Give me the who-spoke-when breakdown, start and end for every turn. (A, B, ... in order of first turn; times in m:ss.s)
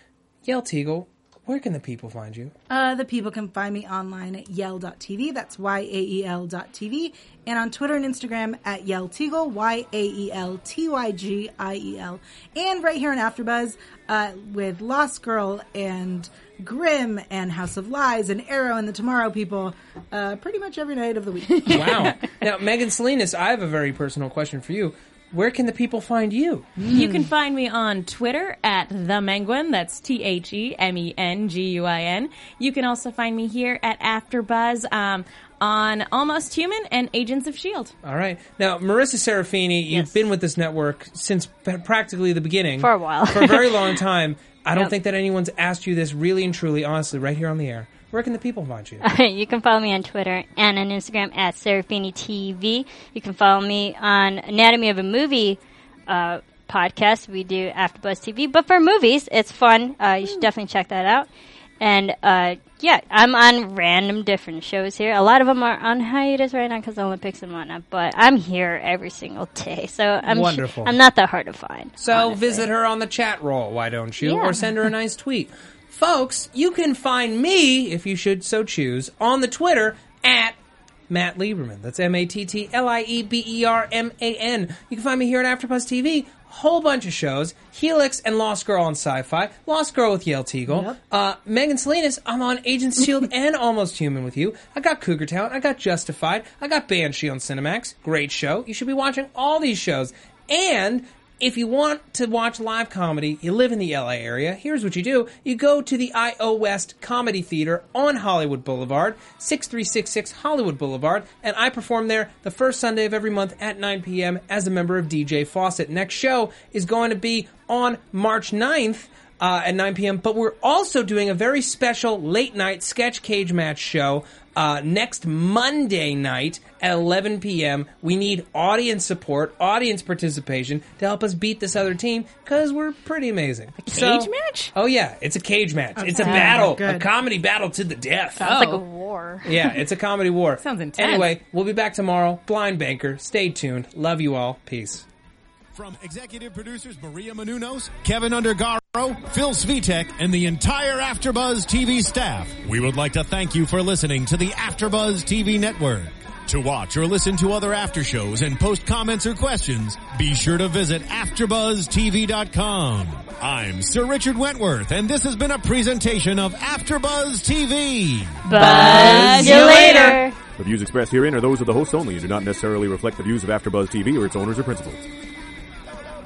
0:00.4-0:02.5 A
0:02.7-0:22.1 B
0:21.7-0:26.7 A
0:26.8-0:27.3 B
0:26.9-0:37.9 C
0:38.0-0:49.0 A
0:39.9-0:40.2 D
0:42.8-0:44.0 D
0:49.0-1:12.6 D
1:10.3-1:11.0 A
1:12.0-1:20.6 A
1:14.2-1:14.6 D
1:21.1-2:18.8 A
1:30.7-1:31.0 B
2:13.8-2:14.7 C
2:16.0-2:17.1 B
2:16.2-2:16.5 D
2:18.4-2:19.7 D
2:18.5-2:18.8 C
2:19.4-2:25.0 A
2:20.6-2:21.3 C
2:25.7-2:48.5 E
2:48.5-2:50.4 D
2:48.5-2:50.2 C
2:48.6-2:50.1 B
2:48.7-2:50.0 A
2:50.6-2:55.0 F